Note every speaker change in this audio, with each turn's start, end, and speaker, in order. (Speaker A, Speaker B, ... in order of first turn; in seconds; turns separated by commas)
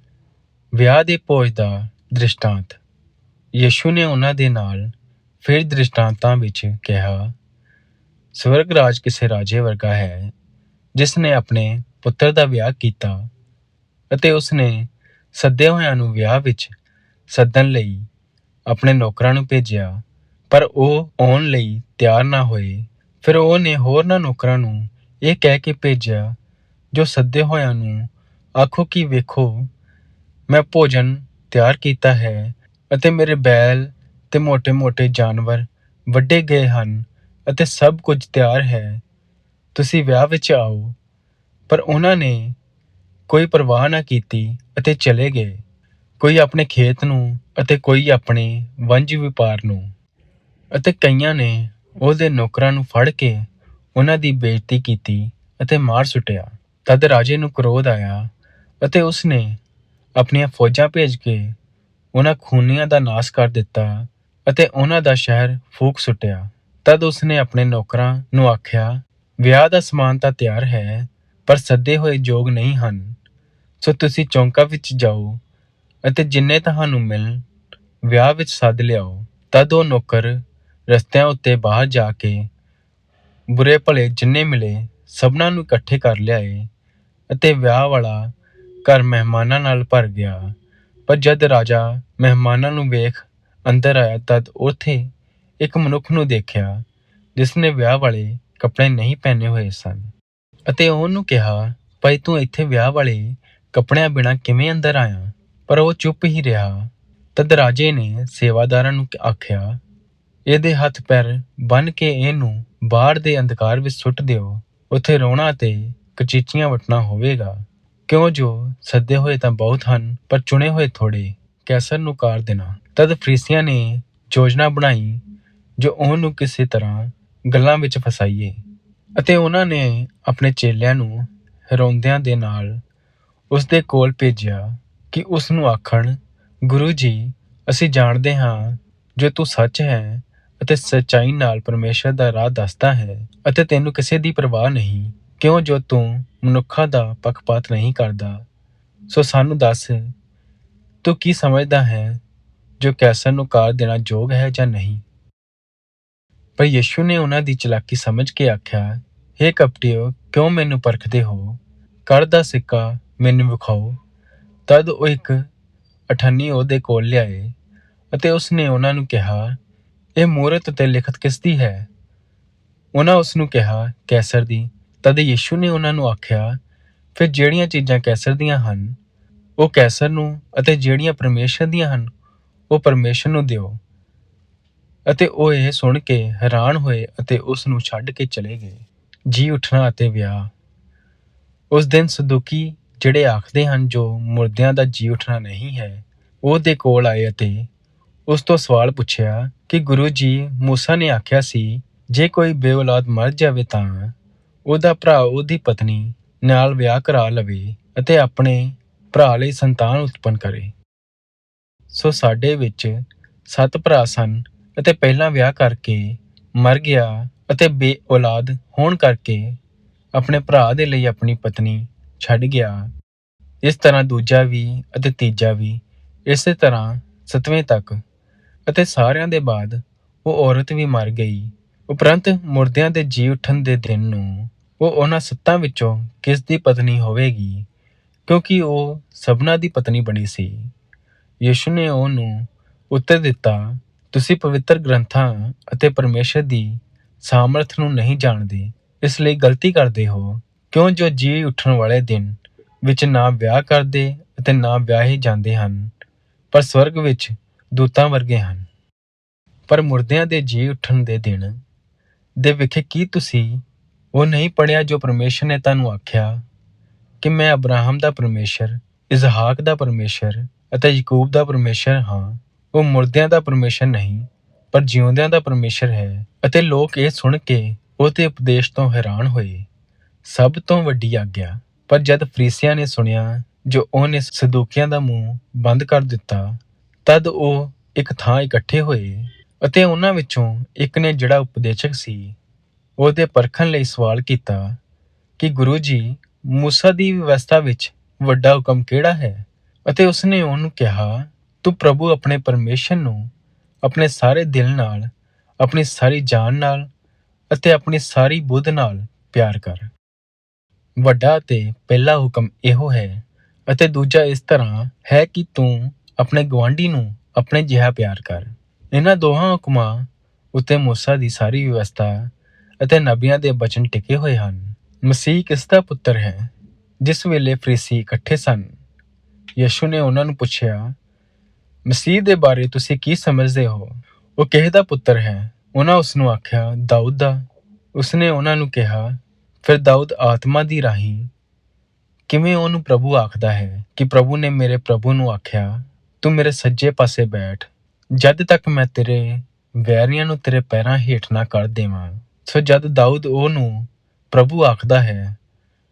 Speaker A: 0.8-2.8, Speaker A: 3.6-7.3, Speaker A: 8.3-10.3, Speaker A: 10.9-13.3, Speaker A: 14.1-16.7, Speaker A: 17.3-18.1, Speaker A: 18.7-26.4, Speaker A: 26.9-29.7, Speaker A: 30.5-39.0, Speaker A: 39.7-41.0, Speaker A: 41.7-42.6, Speaker A: 43.3-45.6, Speaker A: 46.2-49.9, Speaker A: 50.7-58.3, Speaker A: 58.8-59.6, Speaker A: 60.2-61.5, Speaker A: 62.1-73.2, Speaker A: 73.8-75.4, Speaker A: 76.0-77.4, Speaker A: 78.0-82.5, Speaker A: 83.5-86.7, Speaker A: 87.3-90.5, Speaker A: 91.1-96.8, Speaker A: 97.3-100.1, Speaker A: 100.7-109.8, Speaker A: 110.5-125.2, Speaker A: 125.8-128.6, Speaker A: 129.2-132.8, Speaker A: 133.5-148.4, Speaker A: 149.1-150.1, Speaker A: 151.0-152.2, Speaker A: 152.8-155.0, Speaker A: 156.6-164.0, Speaker A: 164.7-165.4, Speaker A: 166.1-167.5, Speaker A: 168.1-169.6, Speaker A: 170.2-171.9, Speaker A: 172.9-176.6, Speaker A: 177.1-179.0, Speaker A: 179.6-182.1, Speaker A: 182.7-183.8, Speaker A: 185.1-190.5, Speaker A: 191.7-197.7, Speaker A: 198.3-204.1, Speaker A: 204.7-210.7, Speaker A: 211.9-219.6, Speaker A: 220.1-222.9, Speaker A: 223.6-228.0, Speaker A: 228.7-237.7, Speaker A: 238.3-240.7, Speaker A: 241.4-255.9, Speaker A: 256.5-258.6, Speaker A: 259.7-261.6, Speaker A: 262.4-266.4, Speaker A: 267.2-279.7, Speaker A: 280.2-292.4, Speaker A: 293.0-294.8, Speaker A: 295.4-303.3, Speaker A: 303.8-306.9, Speaker A: 307.5-309.9, Speaker A: 311.0-328.7, Speaker A: 329.6-330.9, Speaker A: 331.9-337.4, Speaker A: 337.9-341.3, Speaker A: 342.3-355.4